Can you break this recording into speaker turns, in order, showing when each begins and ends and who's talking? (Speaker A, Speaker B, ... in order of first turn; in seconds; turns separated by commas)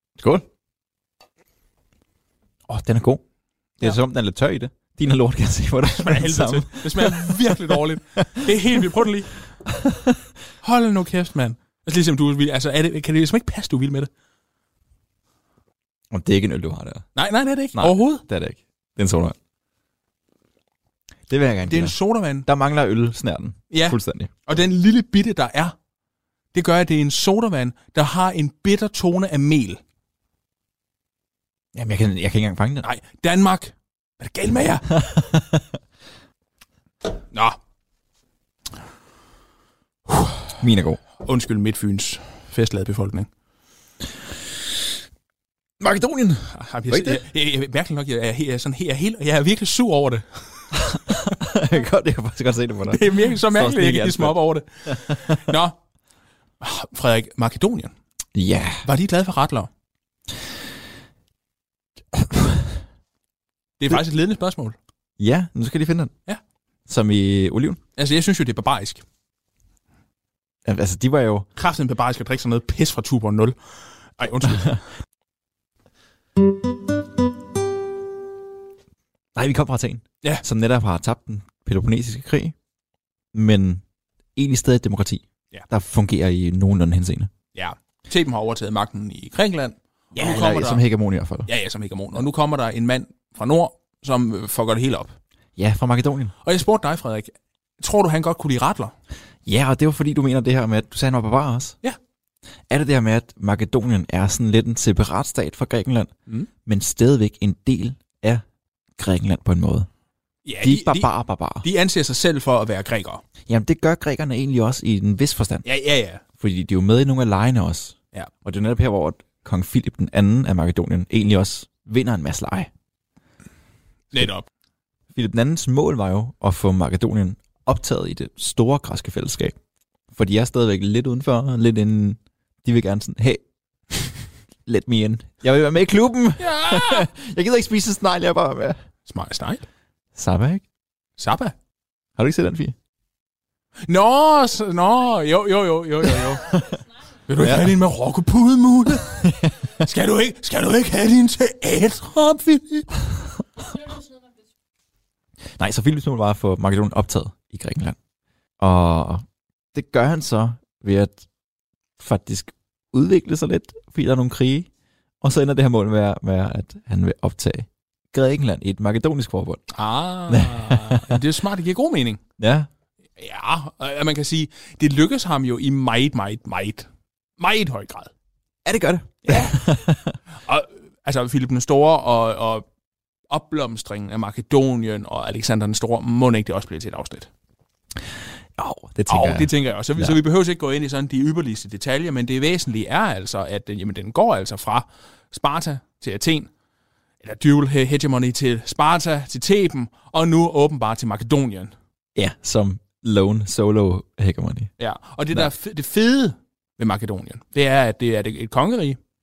Speaker A: 0.2-0.4, Speaker A: 2.7-3.2, Speaker A: 3.8-8.5, Speaker B: 5.9-9.4, Speaker A: 9.7-10.2, Speaker B: 10.6-14.1, Speaker A: 16.1-17.1, Speaker B: 17.1-18.2, Speaker A: 17.7-19.4, Speaker A: 21.3-24.3, Speaker B: 21.7-22.5, Speaker B: 23.7-25.7, Speaker B: 26.5-29.8, Speaker A: 31.7-32.9, Speaker B: 32.8-35.1, Speaker A: 34.9-35.6, Speaker B: 37.3-37.6, Speaker B: 40.1-40.5, Speaker A: 40.6-41.0, Speaker B: 41.2-43.3, Speaker A: 45.8-47.2, Speaker B: 46.5-51.3, Speaker A: 50.9-55.4, Speaker B: 52.9-55.8, Speaker B: 56.6-57.9, Speaker A: 58.3-58.9, Speaker B: 58.8-59.7, Speaker A: 62.1-62.8, Speaker B: 63.8-64.8, Speaker A: 65.2-66.1, Speaker A: 66.9-67.8, Speaker B: 68.0-69.0, Speaker A: 70.7-71.5, Speaker B: 71.6-73.6, Speaker B: 74.2-74.8, Speaker A: 79.3-82.5, Speaker A: 83.3-83.8, Speaker A: 84.3-87.3, Speaker B: 87.5-90.8, Speaker A: 90.2-91.5, Speaker B: 91.5-95.2, Speaker A: 95.6-96.3, Speaker B: 96.4-98.9, Speaker A: 99.5-101.8, Speaker A: 102.7-106.1, Speaker A: 106.7-108.4, Speaker A: 109.0-109.9, Speaker B: 110.5-113.2, Speaker A: 110.6-111.7, Speaker A: 113.5-115.7, Speaker B: 115.6-116.2, Speaker A: 116.4-122.7, Speaker B: 124.1-124.5, Speaker A: 125.1-129.6, Speaker A: 130.1-138.8, Speaker B: 136.4-137.1, Speaker B: 139.1-139.7, Speaker A: 140.2-140.6, Speaker B: 141.2-141.6, Speaker A: 142.2-142.8, Speaker B: 143.9-146.6, Speaker B: 147.3-152.9, Speaker A: 147.4-147.7, Speaker A: 149.1-149.6, Speaker A: 155.6-158.0, Speaker A: 158.6-161.2, Speaker A: 162.0-164.7, Speaker A: 165.2-169.7, Speaker B: 169.7-172.2, Speaker A: 170.3-171.2, Speaker A: 172.4-172.7, Speaker B: 173.2-176.9, Speaker B: 177.4-178.1, Speaker A: 178.7-180.2, Speaker B: 179.2-179.7, Speaker B: 180.4-182.6, Speaker B: 183.3-187.3, Speaker A: 188.6-190.2, Speaker B: 189.1-196.5, Speaker B: 197.2-201.7, Speaker A: 202.2-204.7, Speaker B: 204.8-209.0